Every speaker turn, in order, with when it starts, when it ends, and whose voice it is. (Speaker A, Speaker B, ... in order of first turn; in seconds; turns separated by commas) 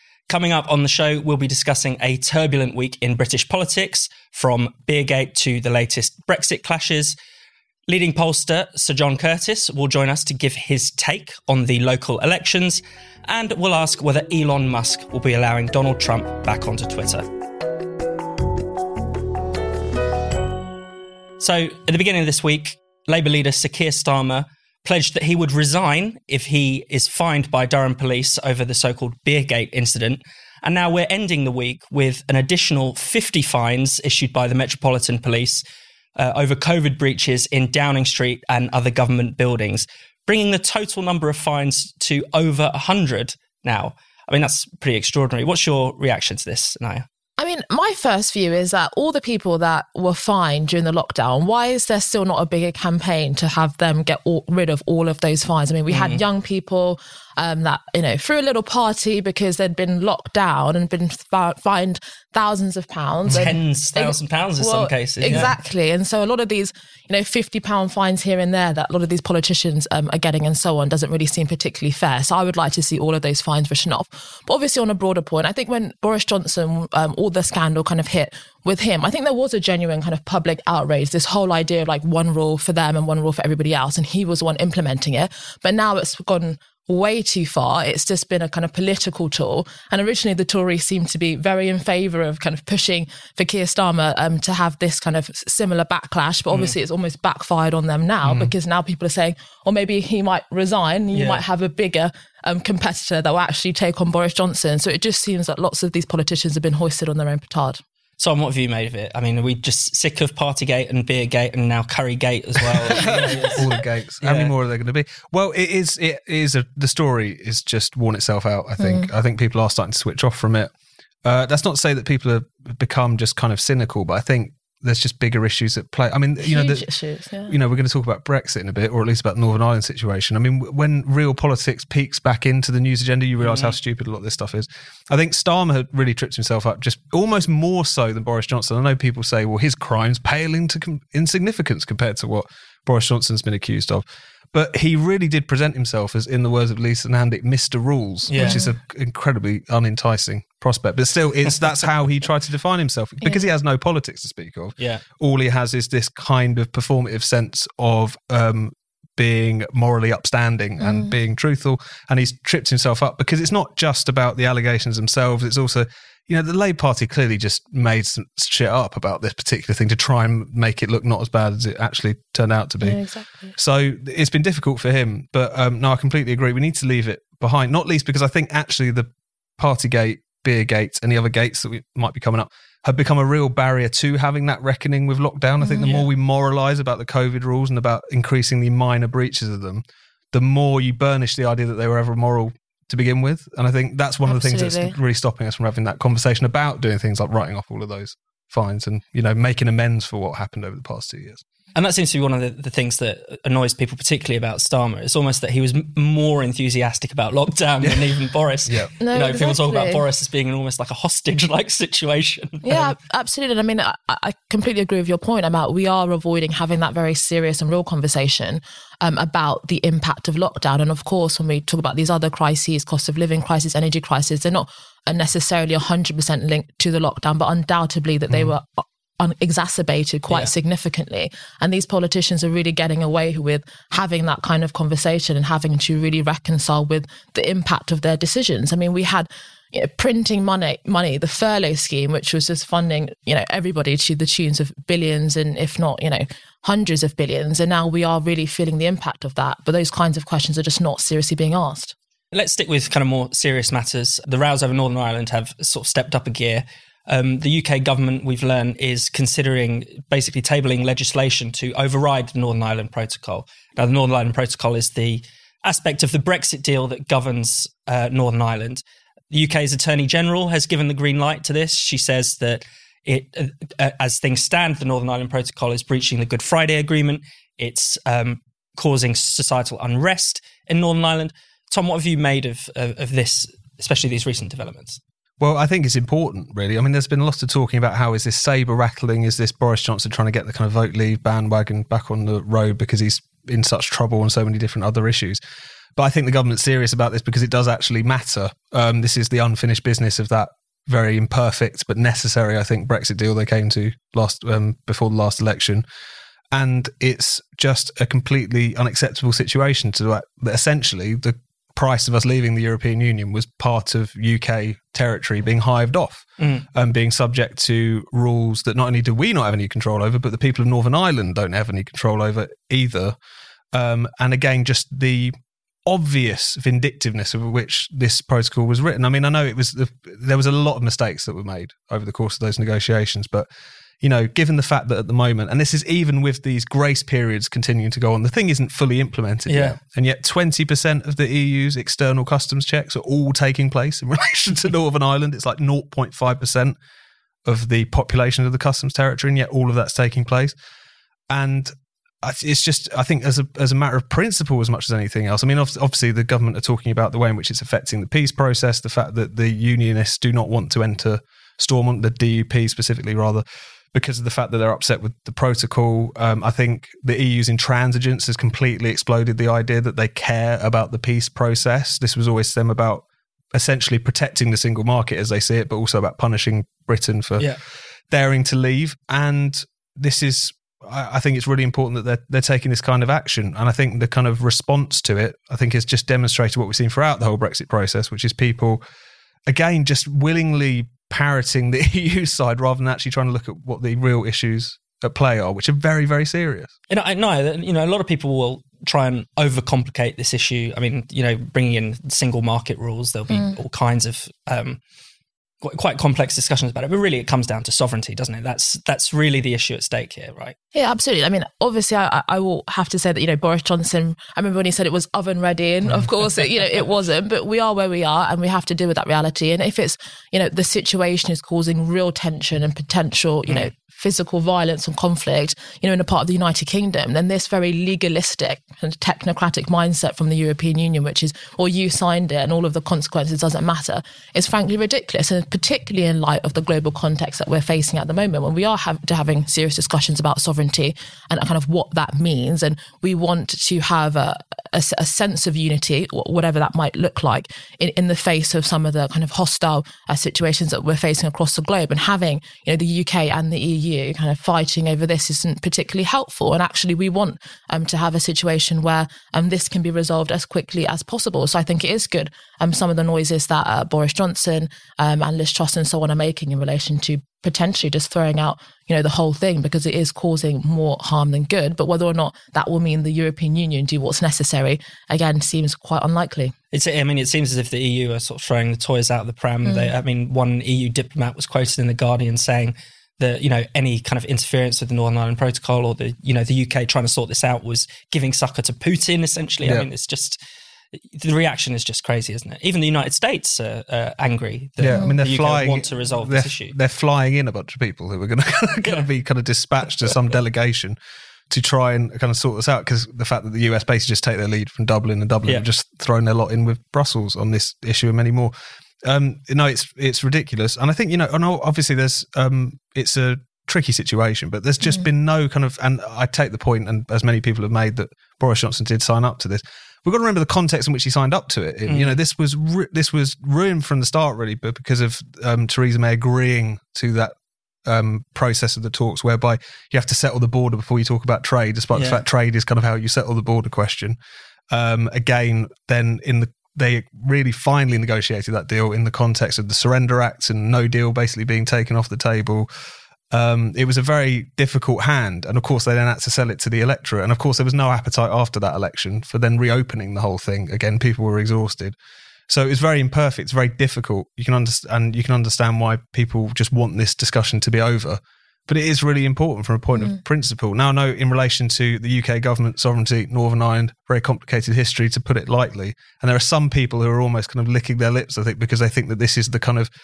Speaker A: 0.3-7.2, Speaker A: 7.9-17.2, Speaker A: 21.4-35.6, Speaker A: 36.1-47.0, Speaker B: 47.4-107.8, Speaker A: 55.9-56.2, Speaker A: 63.3-65.5, Speaker C: 98.2-98.5, Speaker A: 101.1-101.4, Speaker A: 108.2-113.7, Speaker C: 112.9-120.7, Speaker A: 114.2-114.5, Speaker B: 118.8-119.1, Speaker C: 121.2-126.8, Speaker B: 126.4-127.5, Speaker C: 127.5-201.4, Speaker A: 133.4-133.8, Speaker A: 148.3-148.6, Speaker B: 148.3-148.7, Speaker A: 154.8-155.0, Speaker B: 160.8-161.2, Speaker B: 172.8-173.5, Speaker B: 185.6-186.0, Speaker B: 194.2-194.9, Speaker A: 201.7-212.9, Speaker B: 209.0-210.0, Speaker B: 212.6-251.9, Speaker A: 252.3-285.0, Speaker C: 285.4-295.4, Speaker C: 296.0-305.8, Speaker C: 306.5-323.1, Speaker A: 316.4-316.6, Speaker C: 323.7-325.3, Speaker C: 325.9-333.5, Speaker C: 334.0-346.7, Speaker A: 339.5-339.8, Speaker C: 347.4-350.5, Speaker C: 351.3-351.7, Speaker C: 352.2-373.0, Speaker C: 373.5-377.5, Speaker C: 378.1-388.8, Speaker C: 389.5-396.7, Speaker A: 396.9-404.8, Speaker B: 403.3-403.5, Speaker A: 405.6-410.5, Speaker B: 410.7-476.5, Speaker A: 476.7-490.4, Speaker B: 479.6-479.9, Speaker A: 490.9-496.7, Speaker C: 494.8-500.9, Speaker B: 494.9-495.2, Speaker C: 501.5-508.5, Speaker C: 509.0-527.3, Speaker A: 521.9-522.2, Speaker C: 527.9-534.1, Speaker A: 531.9-532.2, Speaker C: 534.7-542.7, Speaker C: 543.3-551.9, Speaker C: 552.5-569.9